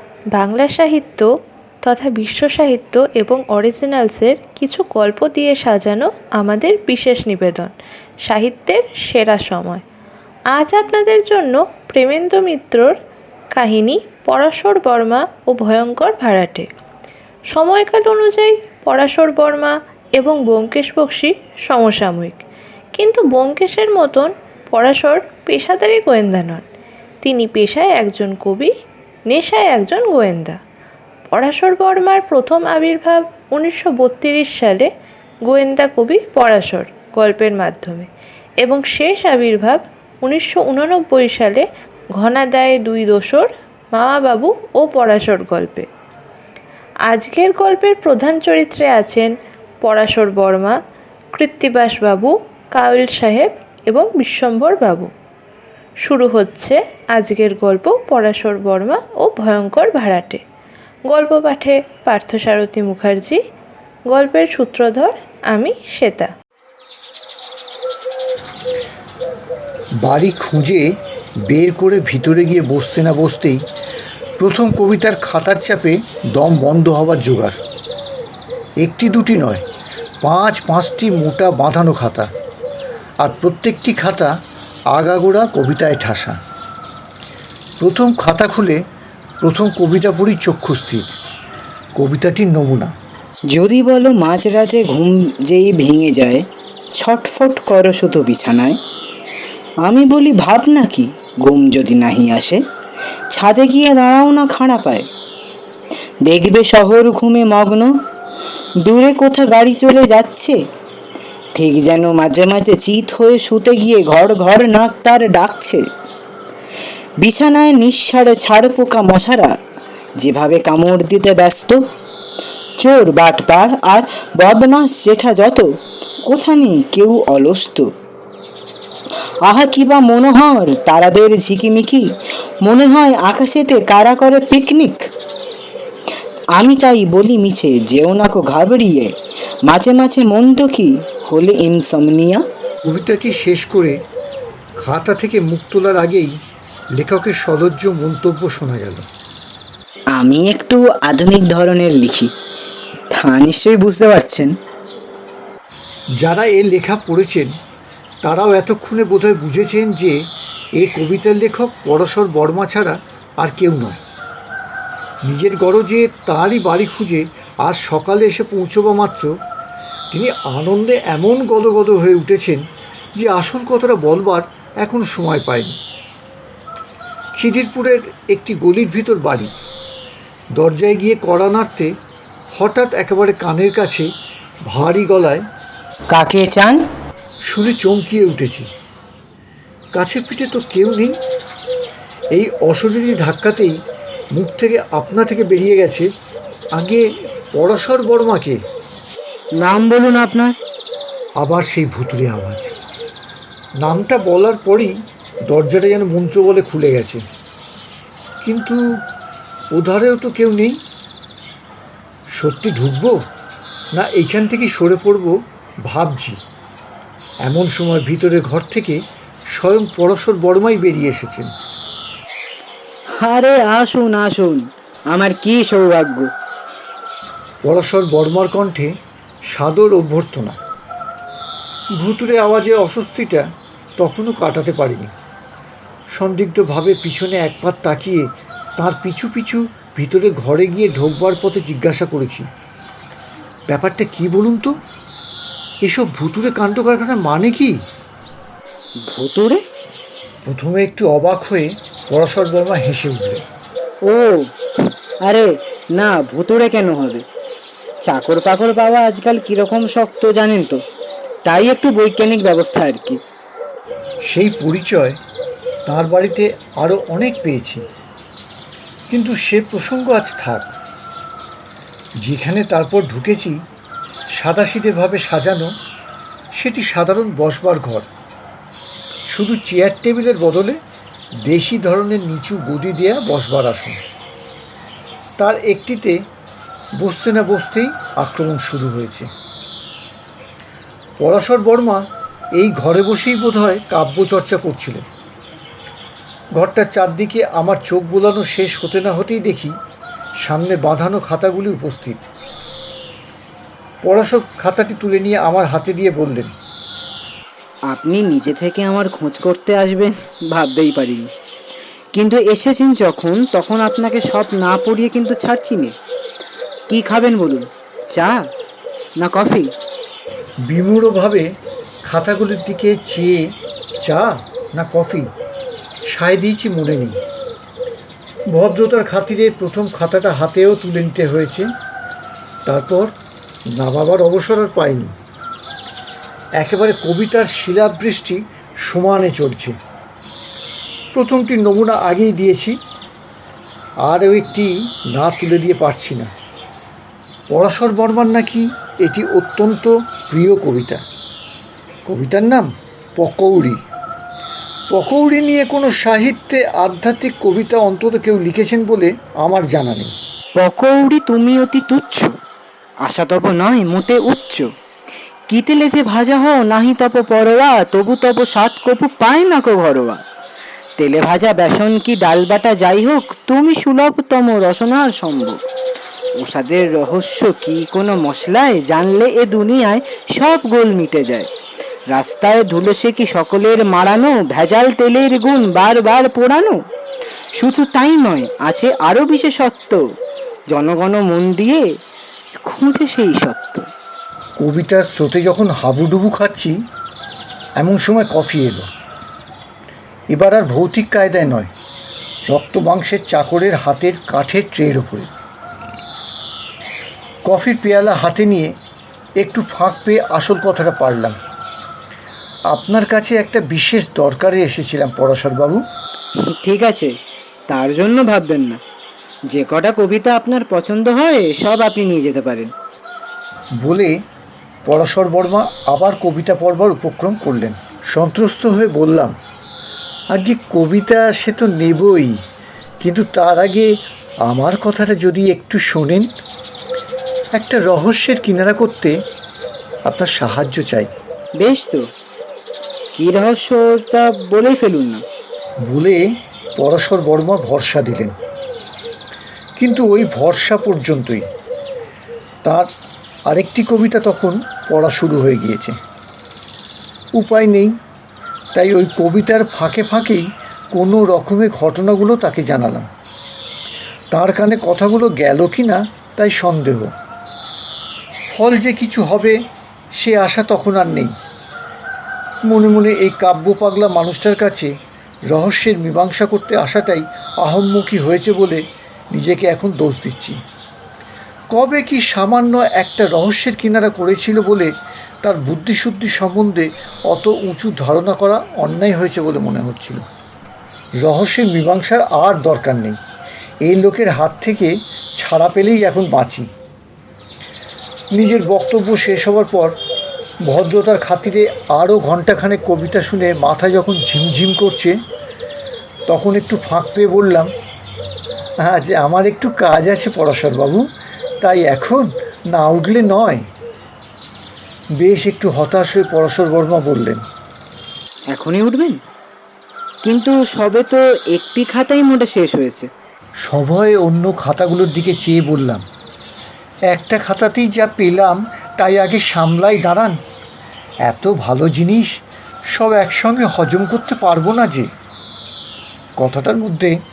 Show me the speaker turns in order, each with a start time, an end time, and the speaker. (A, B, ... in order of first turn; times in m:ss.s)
0:00.3-0:01.3 A
0:01.8-0:07.7 A
0:08.2-0:09.8 A
0:10.5-0:12.9 A
0:13.5-0:16.7 A
0:17.5-0:22.4 A
0:23.0-0:26.6 A
0:27.2-0:28.7 A
0:29.3-0:30.6 A
0:31.3-0:34.9 A
0:35.5-0:38.1 A
0:38.6-0:41.6 A
0:42.2-0:45.9 A
0:47.1-0:49.3 A
0:49.8-0:50.8 A
0:51.3-0:55.1 A
0:56.0-1:00.4 A
1:01.1-1:03.4 A
1:04.1-1:06.3 A
1:10.0-1:10.9 B
1:11.5-1:13.6 B
1:14.4-1:17.6 B
1:18.8-1:19.6 B
1:20.2-1:22.3 B
1:23.2-1:24.3 B
1:24.9-1:26.4 B
1:27.8-1:28.8 B
1:29.4-1:31.2 B
1:32.0-1:32.9 B
1:33.5-1:36.4 C
1:37.0-1:38.8 C
1:39.8-1:42.6 C
1:43.3-1:45.1 C
1:46.2-1:47.9 C
1:48.8-1:50.6 C
1:51.6-1:55.8 C
1:57.2-1:59.5 C
2:00.2-2:01.8 C
2:02.8-2:07.9 C
2:09.4-2:15.1 C
2:16.5-2:19.1 C
2:19.6-2:22.4 C
2:22.8-2:24.0 B
2:24.8-2:26.3 B
2:27.0-2:29.1 B
2:30.1-2:32.3 C
2:33.1-2:34.5 C
2:36.2-2:37.5 B
2:38.2-2:40.2 B
2:40.8-2:44.0 B
2:45.2-2:49.3 B
2:50.1-2:52.6 B
2:53.2-2:55.8 B
2:57.4-2:59.5 B
3:00.6-3:01.9 B
3:02.5-3:04.1 B
3:04.7-3:05.4 B
3:06.1-3:06.8 C
3:07.5-3:08.7 B
3:09.9-3:11.1 B
3:12.3-3:13.7 B
3:14.3-3:16.1 B
3:16.7-3:18.6 B
3:19.6-3:20.5 C
3:21.4-3:22.8 B
3:23.8-3:24.9 B
3:25.5-3:27.2 B
3:28.4-3:28.8 B
3:29.7-3:30.8 B
3:32.4-3:33.2 B
3:33.9-3:35.4 B
3:35.9-3:36.4 B
3:37.4-3:39.0 B
3:39.5-3:41.5 B
3:43.1-3:46.3 C
3:47.6-3:48.9 B
3:49.5-3:50.6 B
3:52.0-3:55.1 B
3:56.1-4:02.4 B
4:03.7-4:04.7 B
4:05.8-4:07.8 B
4:09.0-4:09.6 C
4:10.4-4:13.4 B
4:14.0-4:14.5 C
4:15.2-4:17.2 C
4:18.0-4:20.8 C
4:21.4-4:23.2 C
4:24.3-4:25.2 B
4:25.9-4:27.8 B
4:29.1-4:30.7 B
4:32.2-4:33.6 B
4:34.4-4:35.7 B
4:36.6-4:38.1 B
4:39.3-4:40.8 B
4:41.4-4:44.0 B
4:45.4-4:46.2 B
4:47.0-4:49.3 B
4:51.2-4:55.0 B
4:56.6-4:59.7 B
5:00.4-5:02.3 B
5:04.0-5:06.5 B
5:07.9-5:11.3 C
5:12.1-5:15.9 C
5:16.9-5:18.5 C
5:19.2-5:19.7 C
5:20.7-5:21.5 B
5:22.0-5:25.3 B
5:26.1-5:27.2 B
5:28.5-5:31.7 B
5:32.6-5:33.1 B
5:33.7-5:35.1 B
5:36.6-5:39.8 B
5:41.1-5:42.8 B
5:44.0-5:46.3 B
5:47.5-5:51.0 B
5:52.0-5:53.8 B
5:54.9-6:00.1 B
6:00.6-6:02.4 C
6:03.0-6:04.7 C
6:05.5-6:10.2 C
6:11.0-6:15.6 C
6:16.4-6:21.5 C
6:22.1-6:26.8 C
6:27.6-6:30.0 C
6:30.7-6:31.8 C
6:32.6-6:33.9 C
6:34.6-6:36.8 B
6:37.8-6:38.9 B
6:40.3-6:41.7 B
6:42.5-6:45.3 B
6:47.4-6:48.7 B
6:49.4-6:51.4 B
6:52.7-6:55.8 B
6:56.5-6:57.1 C
6:57.7-6:58.8 C
6:59.5-7:02.7 C
7:03.8-7:04.2 B
7:04.8-7:09.3 B
7:10.3-7:12.4 B
7:13.0-7:13.9 B
7:14.4-7:16.3 B
7:17.6-7:19.2 B
7:20.1-7:21.1 B
7:21.6-7:22.0 C
7:23.1-7:25.2 C
7:25.9-7:26.2 B
7:26.8-7:28.3 B
7:29.8-7:31.4 B
7:32.6-7:32.9 B
7:33.5-7:36.0 B
7:37.4-7:37.9 B
7:38.7-7:43.1 B
7:44.3-7:47.1 B
7:48.5-7:49.6 B
7:50.2-7:51.3 B
7:52.7-7:54.9 B
7:55.5-8:00.6 B
8:01.7-8:04.9 B
8:05.4-8:10.2 B
8:11.2-8:13.2 B
8:13.8-8:16.7 B
8:18.3-8:20.0 B
8:20.6-8:25.2 B
8:26.3-8:27.7 B
8:28.8-8:31.0 B
8:31.6-8:33.6 B
8:35.2-8:37.4 B
8:38.5-8:39.2 C
8:40.2-8:43.1 C
8:43.6-8:46.0 B
8:47.1-8:50.4 B
8:51.2-8:52.3 B
8:52.9-8:55.1 B
8:56.4-8:57.1 B